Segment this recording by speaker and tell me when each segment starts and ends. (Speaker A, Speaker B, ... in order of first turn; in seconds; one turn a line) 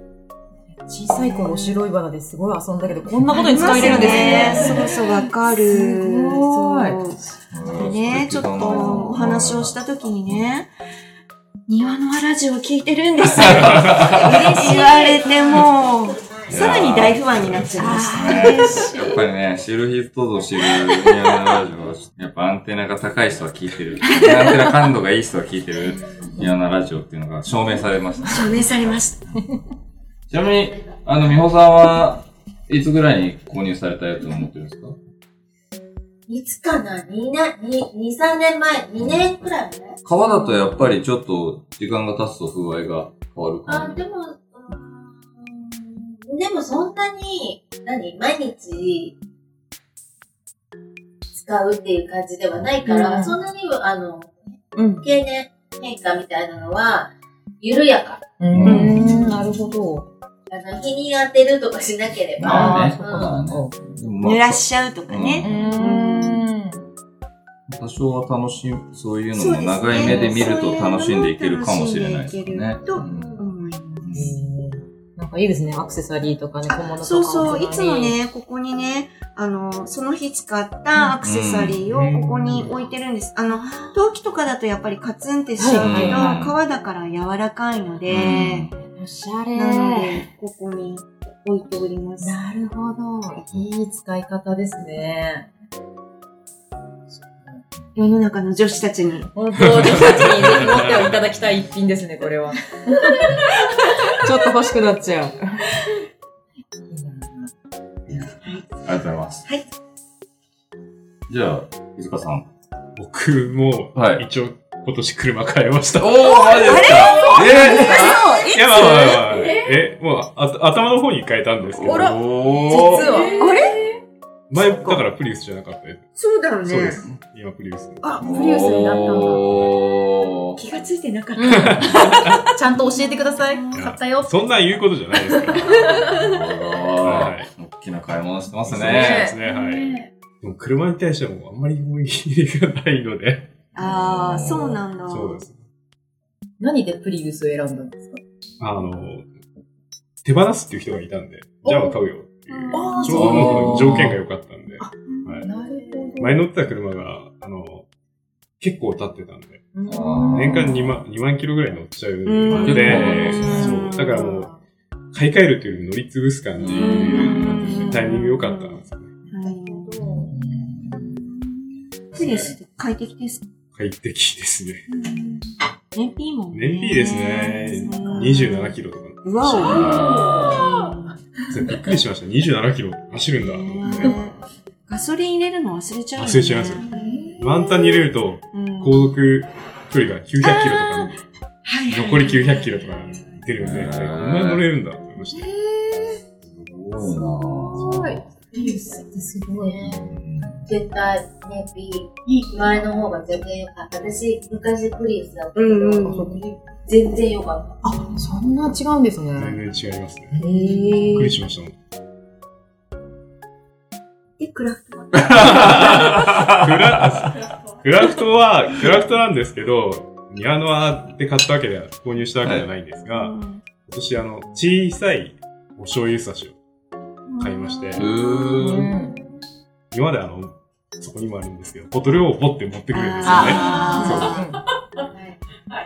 Speaker A: 0.8-7.0
Speaker B: 1.1-1.8
Speaker B: 3.3-10.7
Speaker C: 3.6-4.5
Speaker C: 7.5-9.8
Speaker A: 8.6-9.2
Speaker B: 11.7-18.9
Speaker C: 13.3-14.8
Speaker D: 13.6-13.9
Speaker E: 14.1-16.4
Speaker C: 16.5-28.9
Speaker A: 17.8-19.2
Speaker B: 24.1-24.6
Speaker B: 28.2-29.2
Speaker C: 30.3-35.0
Speaker E: 36.3-40.0
Speaker C: 39.0-39.3
Speaker C: 40.0-44.0
Speaker E: 43.7-49.2
Speaker E: 51.3-54.4
Speaker A: 52.9-53.4
Speaker A: 54.8-55.0
Speaker E: 55.0-58.2
Speaker A: 58.4-60.1
Speaker C: 58.5-59.3
Speaker B: 58.6-59.3
Speaker E: 60.5-63.3
Speaker C: 62.4-65.7
Speaker A: 62.4-63.7
Speaker B: 64.2-66.4
Speaker A: 65.4-66.8
Speaker C: 67.7-73.4
Speaker B: 69.3-74.1
Speaker A: 69.9-70.5
Speaker E: 73.0-73.4
Speaker C: 74.0-74.3
Speaker A: 74.1-78.2
Speaker B: 76.7-88.8
Speaker C: 81.2-81.8
Speaker D: 81.9-82.7
Speaker A: 83.5-84.0
Speaker A: 85.6-86.5
Speaker C: 85.8-86.6
Speaker C: 88.1-88.7
Speaker A: 88.9-90.3
Speaker B: 89.5-92.4
Speaker A: 92.2-95.5
Speaker A: 97.1-97.6
Speaker B: 98.0-99.3
Speaker A: 99.3-105.9
Speaker D: 99.6-101.1
Speaker A: 106.9-107.5
Speaker C: 108.1-109.5
Speaker C: 111.3-112.5
Speaker D: 113.0-116.8
Speaker C: 114.0-114.2
Speaker C: 116.0-118.2
Speaker B: 116.4-119.3
Speaker A: 117.2-117.9
Speaker D: 117.8-122.3
Speaker C: 121.7-123.1
Speaker A: 121.8-123.7
Speaker B: 122.7-123.9
Speaker D: 124.5-126.0
Speaker B: 124.5-125.0
Speaker B: 126.2-127.0
Speaker D: 126.6-128.2
Speaker B: 128.0-128.3
Speaker A: 128.2-129.4
Speaker C: 128.2-130.6
Speaker D: 129.4-129.7
Speaker B: 130.6-133.9
Speaker A: 131.3-134.5
Speaker D: 131.5-132.5
Speaker D: 133.7-136.1
Speaker A: 135.3-136.0
Speaker C: 136.0-139.3
Speaker D: 137.0-137.5
Speaker D: 138.7-143.5
Speaker A: 138.8-139.4
Speaker B: 143.8-145.4
Speaker C: 143.8-144.8
Speaker D: 145.1-145.6
Speaker A: 146.6-148.2
Speaker D: 148.6-149.3
Speaker D: 150.2-155.5
Speaker B: 152.5-153.5
Speaker A: 152.7-154.0
Speaker C: 153.1-154.2
Speaker A: 154.8-156.4
Speaker D: 156.2-157.8
Speaker D: 158.6-159.7
Speaker A: 159.8-160.6
Speaker C: 159.9-160.8
Speaker D: 160.3-164.5
Speaker B: 162.2-164.3
Speaker C: 162.6-163.8
Speaker A: 162.6-163.6
Speaker A: 164.1-164.6
Speaker D: 165.1-169.1
Speaker C: 166.6-168.0
Speaker B: 166.7-168.8
Speaker B: 169.3-170.2
Speaker A: 169.4-170.2
Speaker C: 170.0-171.2
Speaker B: 172.1-173.4
Speaker D: 173.8-174.8
Speaker B: 174.9-180.0
Speaker D: 176.5-179.2
Speaker C: 179.4-180.8
Speaker E: 179.6-180.8
Speaker B: 180.6-181.1
Speaker D: 181.5-184.2
Speaker B: 183.4-184.3
Speaker B: 184.9-189.1
Speaker D: 186.2-186.8
Speaker E: 186.9-187.3
Speaker D: 187.4-191.2
Speaker B: 190.4-191.1
Speaker B: 191.6-192.9
Speaker D: 191.8-195.5
Speaker C: 193.6-194.7
Speaker C: 196.5-198.2
Speaker A: 197.7-200.0
Speaker E: 198.5-199.0
Speaker E: 199.6-200.0
Speaker C: 199.8-200.7
Speaker E: 200.7-207.8
Speaker B: 205.6-206.2
Speaker A: 206.0-206.5
Speaker A: 207.8-209.6
Speaker D: 209.3-210.4
Speaker A: 210.3-211.4
Speaker D: 211.0-211.8
Speaker B: 214.4-216.0
Speaker C: 215.2-217.1
Speaker D: 215.2-226.6
Speaker B: 223.1-223.6
Speaker B: 227.3-228.1
Speaker D: 227.4-228.1
Speaker C: 227.9-228.9
Speaker A: 228.6-229.2
Speaker D: 229.9-234.4
Speaker B: 232.9-234.4
Speaker A: 233.2-234.6
Speaker E: 233.5-234.2